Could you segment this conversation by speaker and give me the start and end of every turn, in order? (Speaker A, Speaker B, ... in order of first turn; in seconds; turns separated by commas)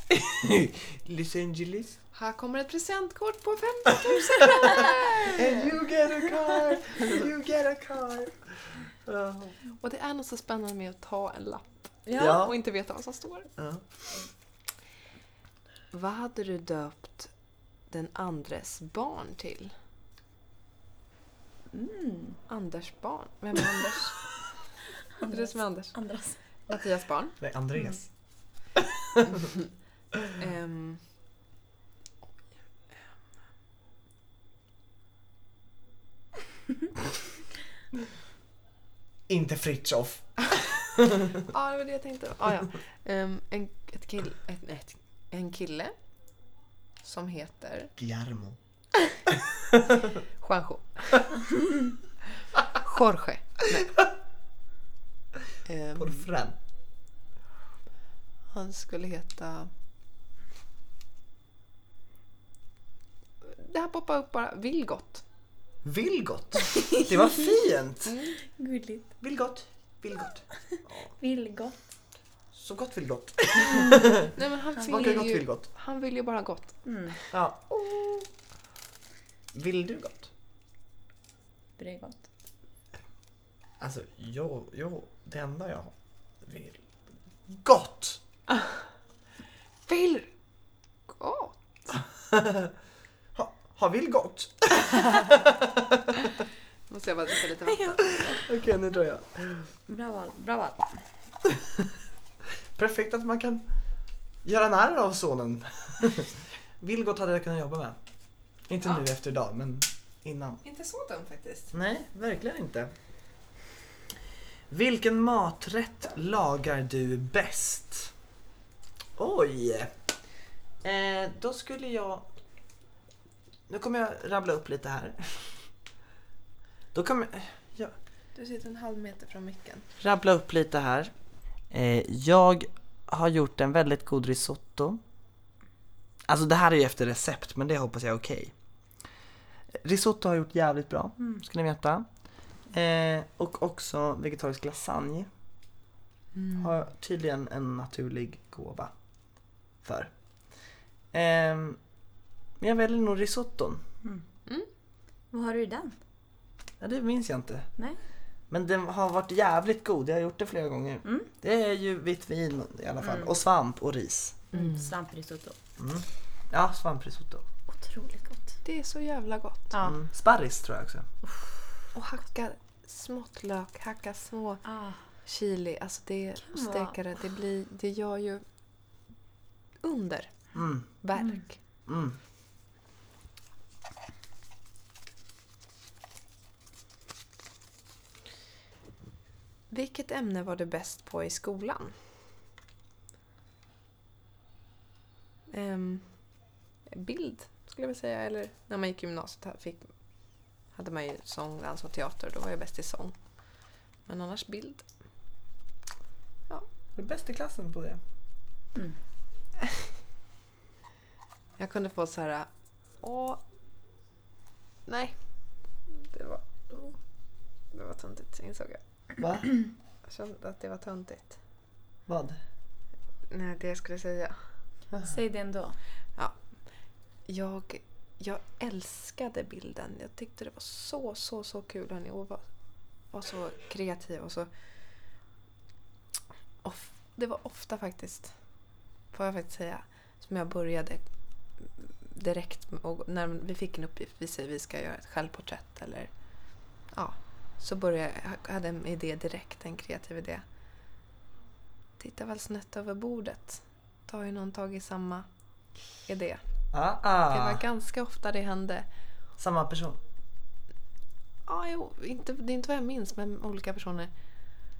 Speaker A: 0.1-2.0, Speaker B: 2.1-5.7, Speaker A: 4.5-9.6, Speaker B: 9.8-13.5, Speaker C: 12.1-12.4, Speaker A: 12.2-12.5, Speaker A: 13.6-13.9, Speaker B: 15.9-17.3, Speaker B: 17.9-19.7, Speaker C: 21.7-22.4, Speaker B: 22.5-24.2, Speaker C: 25.2-26.4, Speaker B: 25.2-25.9, Speaker B: 26.7-27.4, Speaker A: 27.4-28.1, Speaker A: 28.7-29.5, Speaker B: 30.4-31.0, Speaker A: 39.3-41.5, Speaker B: 41.5-45.9, Speaker B: 47.0-47.9, Speaker A: 48.0-48.6, Speaker A: 49.5-49.8, Speaker B: 50.4-51.5, Speaker B: 52.5-54.0, Speaker B: 55.6-56.2, Speaker A: 56.0-56.5, Speaker B: 58.5-59.7, Speaker B: 63.4-65.2, Speaker A: 65.8-68.1, Speaker C: 66.7-67.3, Speaker B: 68.0-68.3, Speaker C: 68.5-69.1, Speaker A: 69.2-71.1, Speaker C: 71.2-71.8, Speaker A: 72.5-74.3, Speaker C: 73.7-74.1, Speaker B: 74.3-76.8, Speaker C: 74.8-75.1, Speaker A: 74.8-75.7, Speaker C: 76.8-77.2, Speaker A: 77.3-78.3, Speaker A: 79.5-80.3, Speaker C: 81.8-82.3, Speaker A: 83.8-86.8, Speaker A: 87.5-88.2, Speaker B: 89.9-90.3, Speaker B: 91.1-92.0, Speaker A: 92.3-92.7, Speaker A: 93.3-96.3, Speaker B: 96.9-98.1, Speaker C: 97.7-98.4, Speaker A: 98.1-99.7, Speaker C: 99.9-100.9, Speaker A: 101.5-101.8, Speaker A: 102.8-103.7, Speaker A: 104.4-108.0, Speaker A: 108.7-110.6, Speaker B: 110.6-111.7, Speaker A: 111.7-112.9, Speaker A: 114.7-118.1, Speaker A: 119.2-119.9, Speaker A: 120.8-122.3, Speaker A: 123.7-125.6, Speaker A: 126.9-127.9, Speaker B: 128.3-129.9, Speaker A: 130.0-131.1, Speaker A: 131.7-135.0, Speaker A: 136.3-138.5, Speaker A: 139.8-142.1, Speaker A: 142.7-145.3, Speaker A: 146.6-148.9, Speaker A: 149.8-150.1, Speaker A: 151.1-151.8, Speaker A: 152.6-153.8, Speaker C: 155.3-155.9, Speaker A: 156.8-157.7, Speaker A: 158.5-164.4, Speaker C: 161.0-161.3, Speaker C: 163.0-163.3, Speaker C: 164.5-165.6, Speaker B: 164.5-164.8, Speaker A: 165.8-167.4, Speaker C: 167.7-168.6, Speaker B: 168.6-169.7, Speaker C: 169.7-170.0, Speaker A: 169.8-171.1, Speaker B: 171.9-174.6, Speaker C: 174.6-175.0, Speaker B: 175.2-178.4, Speaker C: 176.4-176.9, Speaker B: 179.8-180.5, Speaker A: 180.5-180.9, Speaker B: 181.0-181.6, Speaker A: 181.9-182.2, Speaker B: 189.7-191.9, Speaker B: 195.5-196.2, Speaker B: 196.9-199.9, Speaker B: 200.7-203.2, Speaker B: 204.1-204.8, Speaker A: 206.9-208.0, Speaker B: 211.6-212.5, Speaker B: 213.0-213.4, Speaker B: 214.9-215.1, Speaker B: 215.9-216.5, Speaker B: 217.7-218.8, Speaker A: 219.2-219.5, Speaker B: 220.1-221.4, Speaker A: 222.1-222.4, Speaker B: 223.3-224.4, Speaker C: 225.0-225.8, Speaker B: 227.2-232.4, Speaker B: 233.1-234.5, Speaker B: 236.6-238.3, Speaker B: 239.1-241.1, Speaker B: 241.6-246.1, Speaker B: 246.9-250.4, Speaker B: 252.0-255.2, Speaker B: 256.1-256.4, Speaker A: 256.7-257.6, Speaker B: 257.3-258.9, Speaker A: 259.4-260.0, Speaker B: 261.5-264.1